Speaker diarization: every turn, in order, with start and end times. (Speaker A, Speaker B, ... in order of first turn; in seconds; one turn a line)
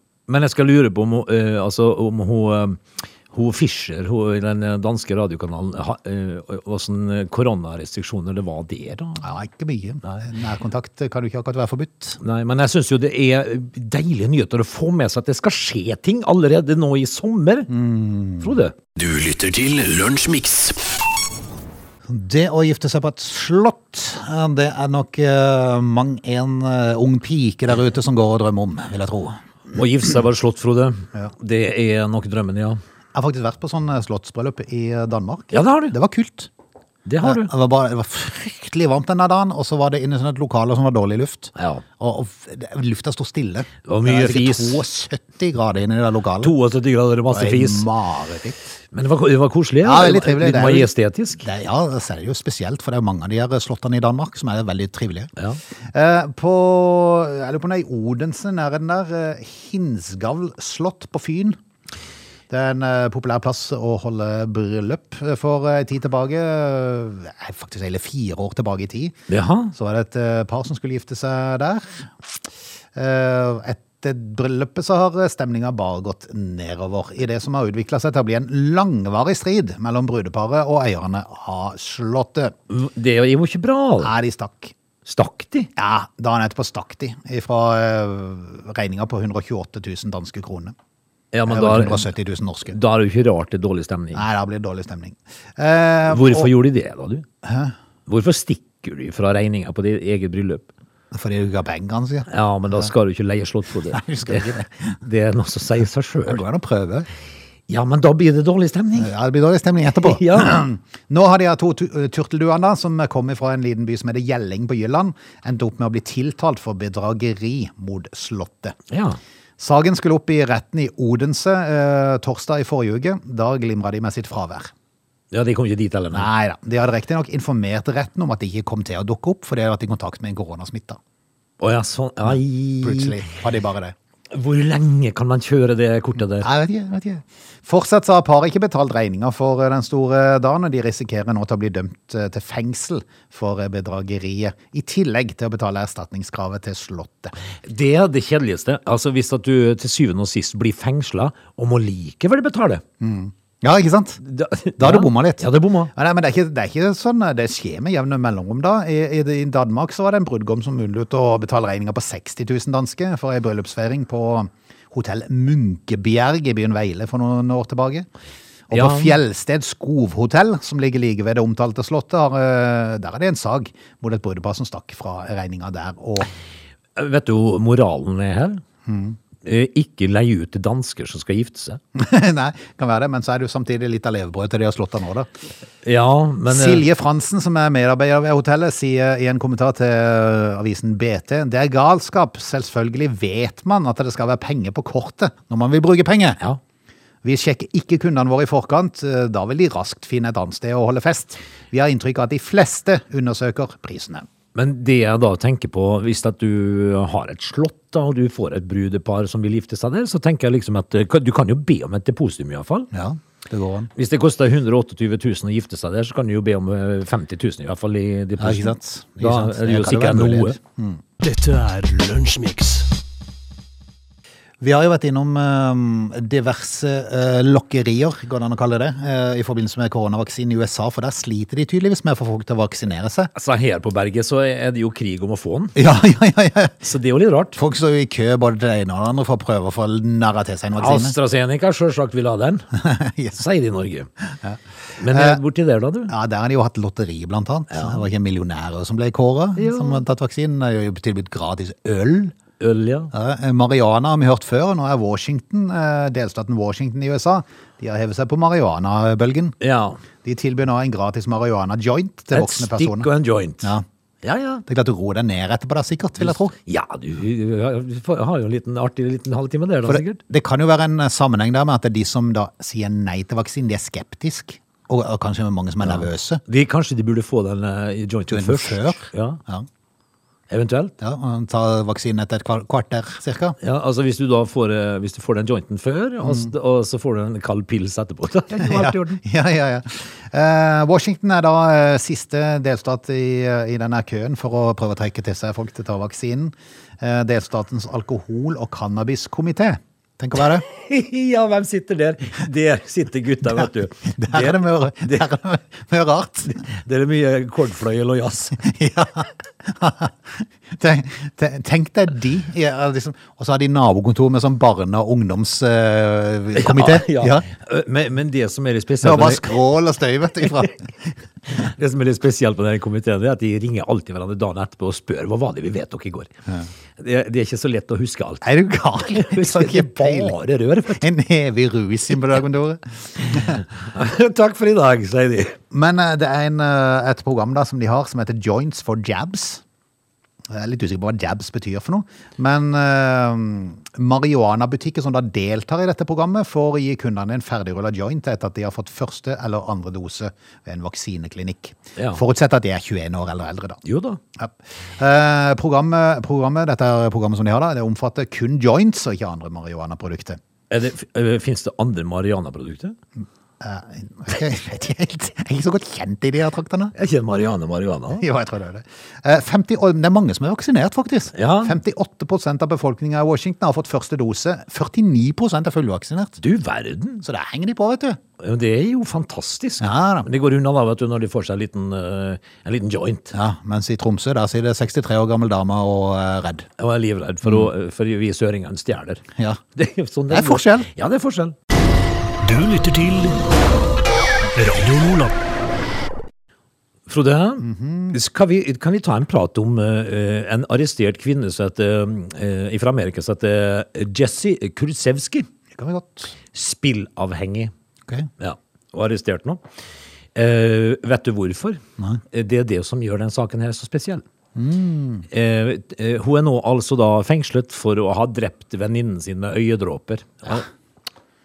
Speaker A: 0.3-9.2
Speaker B: 9.2-12.2
Speaker A: 12.2-17.7
Speaker B: 17.7-18.6
Speaker A: 18.4-18.7
Speaker C: 18.9-20.8
Speaker B: 22.1-29.4
Speaker A: 29.7-32.8
Speaker B: 33.1-36.5
Speaker A: 35.5-35.9
Speaker A: 37.0-37.5
Speaker B: 37.2-46.5
Speaker A: 41.5-41.8
Speaker A: 43.9-44.9
Speaker A: 46.4-47.9
Speaker B: 47.3-48.8
Speaker A: 48.9-51.4
Speaker B: 49.8-55.3
Speaker B: 55.9-61.6
Speaker B: 62.5-69.1
Speaker A: 69.3-69.7
Speaker B: 69.7-72.1
Speaker B: 72.9-82.5
Speaker A: 82.7-84.1
Speaker B: 84.0-84.7
Speaker A: 85.0-85.7
Speaker B: 85.8-90.7
Speaker A: 91.3-92.1
Speaker B: 91.5-92.8
Speaker A: 92.7-94.2
Speaker B: 94.1-96.5
Speaker A: 96.1-97.2
Speaker B: 97.4-97.7
Speaker A: 98.1-100.7
Speaker B: 101.1-102.9
Speaker A: 102.3-106.4
Speaker B: 103.9-105.0
Speaker B: 106.3-107.1
Speaker A: 107.7-109.1
Speaker B: 109.0-118.8
Speaker A: 109.9-110.6
Speaker A: 118.9-119.2
Speaker B: 119.6-124.7
Speaker A: 125.3-126.3
Speaker B: 126.1-131.0
Speaker A: 131.6-133.2
Speaker B: 132.3-133.9
Speaker A: 134.3-136.5
Speaker B: 136.4-147.3
Speaker A: 147.6-152.8
Speaker B: 153.0-154.2
Speaker A: 154.2-155.9
Speaker B: 154.8-168.1
Speaker B: 168.7-176.3
Speaker A: 168.7-169.2
Speaker A: 176.9-178.6
Speaker B: 178.8-179.2
Speaker A: 179.4-181.8
Speaker B: 181.9-185.3
Speaker A: 185.8-186.8
Speaker B: 186.4-196.4
Speaker B: 197.2-204.3
Speaker A: 204.5-212.9
Speaker B: 212.9-213.9
Speaker A: 213.9-220.6
Speaker B: 218.4-221.0
Speaker C: 221.2-222.9
Speaker B: 224.6-233.3
Speaker A: 233.3-235.7
Speaker B: 235.7-236.8
Speaker A: 236.8-237.6
Speaker B: 237.6-241.2
Speaker A: 240.8-242.7
Speaker B: 242.7-243.4
Speaker A: 243.3-244.1
Speaker B: 244.4-245.4
Speaker A: 245.0-246.1
Speaker B: 246.1-252.4
Speaker A: 247.7-248.0
Speaker A: 249.6-250.0
Speaker A: 252.6-253.1
Speaker B: 253.1-259.6
Speaker A: 259.6-260.0
Speaker B: 260.2-263.1
Speaker A: 262.3-264.6
Speaker B: 264.6-266.6
Speaker A: 266.2-270.2
Speaker B: 269.8-276.4
Speaker A: 275.8-279.4
Speaker B: 278.3-279.7
Speaker A: 280.5-280.9
Speaker B: 281.0-283.6
Speaker A: 283.6-289.2
Speaker B: 286.2-286.5
Speaker B: 288.5-300.6
Speaker A: 300.4-305.2
Speaker B: 304.1-306.6
Speaker A: 306.5-308.6
Speaker B: 308.6-317.5
Speaker A: 316.5-319.6
Speaker B: 319.0-320.9
Speaker A: 320.4-320.7
Speaker A: 321.5-326.3
Speaker A: 327.0-331.0
Speaker B: 328.4-330.4
Speaker B: 330.9-333.6
Speaker A: 333.3-335.6
Speaker B: 335.7-339.6
Speaker B: 340.5-353.8
Speaker A: 353.8-354.2
Speaker B: 354.4-360.4
Speaker A: 360.7-363.0
Speaker B: 363.6-366.9
Speaker A: 366.9-368.2
Speaker B: 368.2-376.4
Speaker A: 371.3-371.8
Speaker A: 376.4-377.2
Speaker B: 377.2-378.2
Speaker A: 378.4-383.3
Speaker B: 379.8-380.3
Speaker B: 383.3-386.7
Speaker A: 386.8-389.2
Speaker B: 389.4-389.6
Speaker A: 389.8-391.6
Speaker B: 390.3-390.9
Speaker C: 392.4-393.4
Speaker C: 394.5-395.3
Speaker A: 397.1-405.5
Speaker B: 397.6-398.2
Speaker B: 405.7-406.3
Speaker A: 406.5-407.7
Speaker A: 408.4-409.6
Speaker A: 410.3-411.8
Speaker A: 412.3-414.2
Speaker B: 414.6-415.3
Speaker A: 415.3-420.7